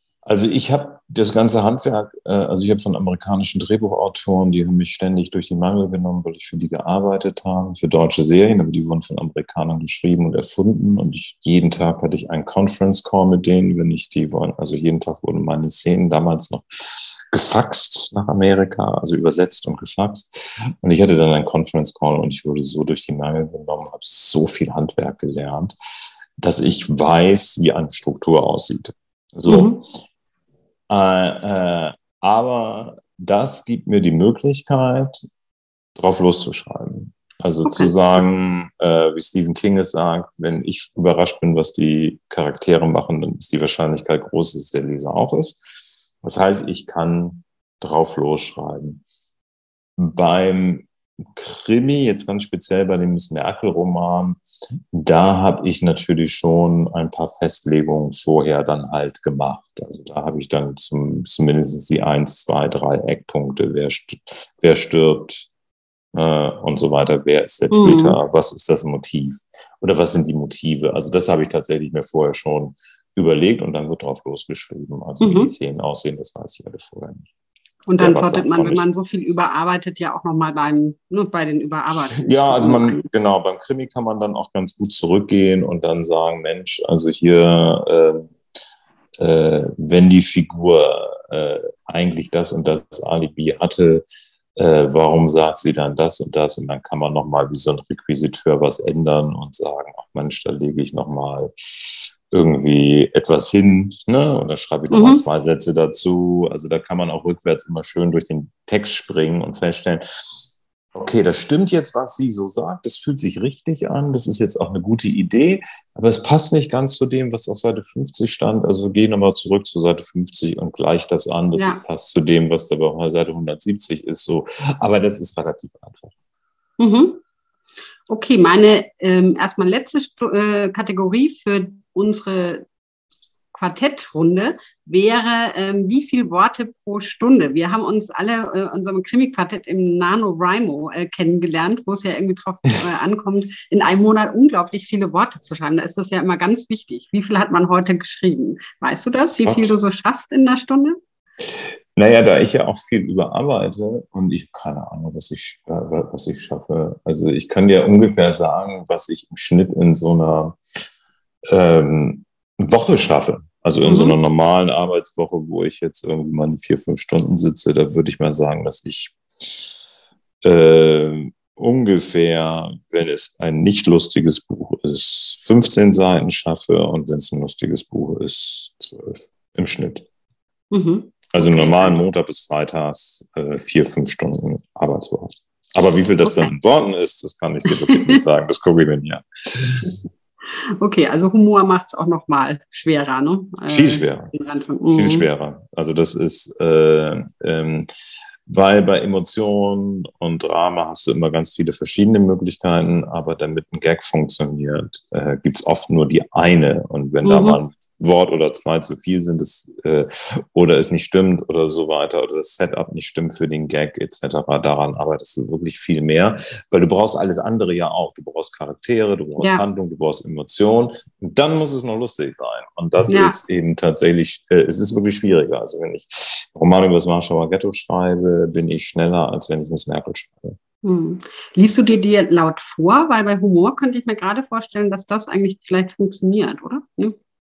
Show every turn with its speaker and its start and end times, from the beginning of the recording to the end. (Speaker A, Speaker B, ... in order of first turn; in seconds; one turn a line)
Speaker A: 0.2-25.7
Speaker A: 26.4-29.8
Speaker B: 29.4-29.8
Speaker A: 30.9-35.2
Speaker A: 36.0-45.6
Speaker B: 37.6-37.9
Speaker A: 46.2-49.0
Speaker A: 50.0-54.4
Speaker A: 54.9-65.5
Speaker A: 66.1-77.3
Speaker B: 67.7-68.2
Speaker B: 75.2-75.5
Speaker B: 77.9-83.0
Speaker A: 78.0-78.9
Speaker A: 82.2-88.3
Speaker A: 89.2-94.0
Speaker A: 94.5-126.1
Speaker B: 104.9-105.2
Speaker B: 121.5-121.8
Speaker B: 126.8-127.2
Speaker B: 128.1-132.6
Speaker B: 133.5-151.0
Speaker A: 149.4-149.7
Speaker A: 151.5-160.6
Speaker A: 161.5-169.7
Speaker B: 163.8-164.2
Speaker A: 170.4-180.1
Speaker B: 180.7-182.0
Speaker A: 181.3-190.0
Speaker B: 186.2-186.5
Speaker B: 187.9-188.2
Speaker B: 190.8-195.3
Speaker A: 193.7-194.3
Speaker A: 194.9-197.9
Speaker A: 198.4-230.6
Speaker B: 207.2-207.6
Speaker B: 219.4-219.6
Speaker B: 223.1-223.4
Speaker B: 230.8-237.2